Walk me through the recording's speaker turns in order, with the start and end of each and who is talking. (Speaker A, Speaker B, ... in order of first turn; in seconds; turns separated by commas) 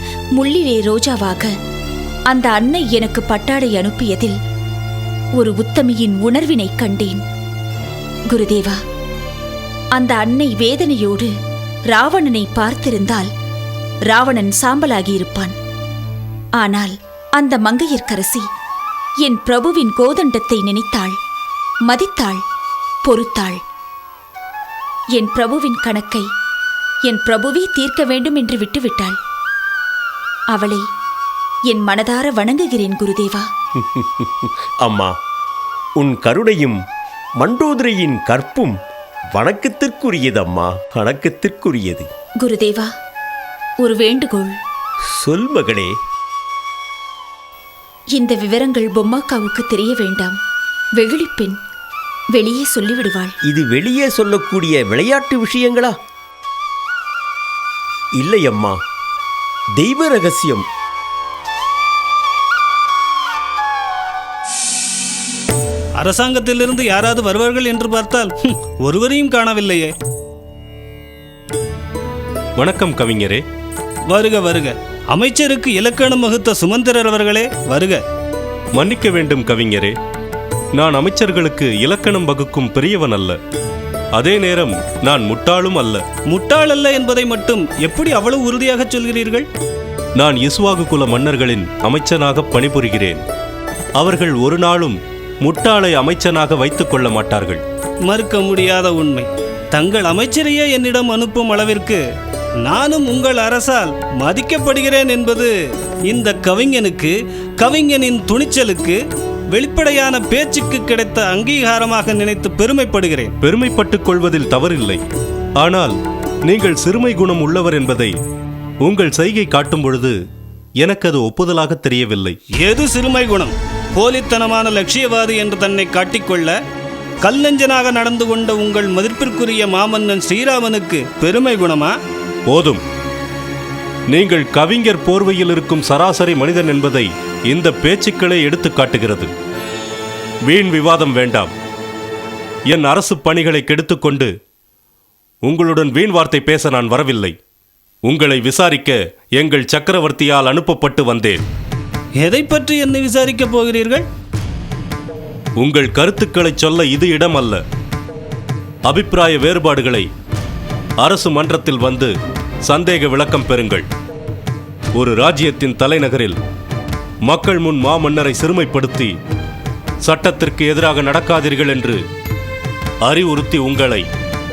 Speaker A: 0.4-1.5, Speaker A: 2.3-4.4, Speaker A: 5.4-7.2, Speaker A: 8.3-8.8, Speaker A: 9.9-11.3, Speaker A: 11.9-13.3, Speaker A: 14.1-15.5, Speaker A: 16.6-18.4, Speaker A: 19.2-21.1, Speaker A: 21.9-22.4, Speaker A: 23.0-23.6, Speaker A: 25.1-26.2, Speaker A: 27.1-29.2, Speaker A: 30.5-30.8, Speaker A: 31.7-33.5, Speaker B: 33.8-35.1, Speaker B: 36.0-36.8, Speaker B: 37.4-38.7, Speaker B: 39.3-42.1, Speaker A: 42.4-42.9, Speaker A: 43.8-44.5, Speaker B: 45.2-45.9, Speaker A: 48.1-50.4, Speaker A: 51.0-51.6, Speaker A: 52.3-53.3, Speaker B: 53.4-55.9, Speaker B: 58.2-58.8, Speaker B: 59.8-60.6, Speaker C: 66.0-69.9, Speaker D: 72.6-73.4, Speaker C: 74.1-78.0, Speaker D: 78.8-79.9, Speaker D: 80.8-83.4, Speaker D: 84.2-86.0, Speaker C: 86.3-89.5, Speaker D: 90.2-93.2, Speaker D: 94.0-97.6, Speaker C: 98.1-102.0, Speaker C: 102.6-105.5, Speaker C: 106.1-109.0, Speaker C: 109.5-113.3, Speaker D: 113.4-115.0, Speaker D: 115.6-115.9, Speaker D: 116.5-118.1, Speaker D: 118.8-120.1, Speaker D: 120.8-122.4, Speaker C: 122.6-126.5, Speaker C: 127.2-131.9, Speaker D: 132.5-132.8, Speaker D: 134.1-139.3, Speaker D: 140.5-141.5, Speaker D: 142.7-144.3, Speaker D: 145.4-147.3, Speaker D: 148.0-151.4, Speaker C: 152.2-154.0, Speaker D: 155.6-157.6, Speaker D: 158.9-160.1, Speaker D: 161.0-162.1, Speaker D: 162.7-163.9, Speaker D: 164.9-166.4, Speaker D: 167.2-169.1, Speaker D: 170.0-172.0, Speaker D: 173.1-174.1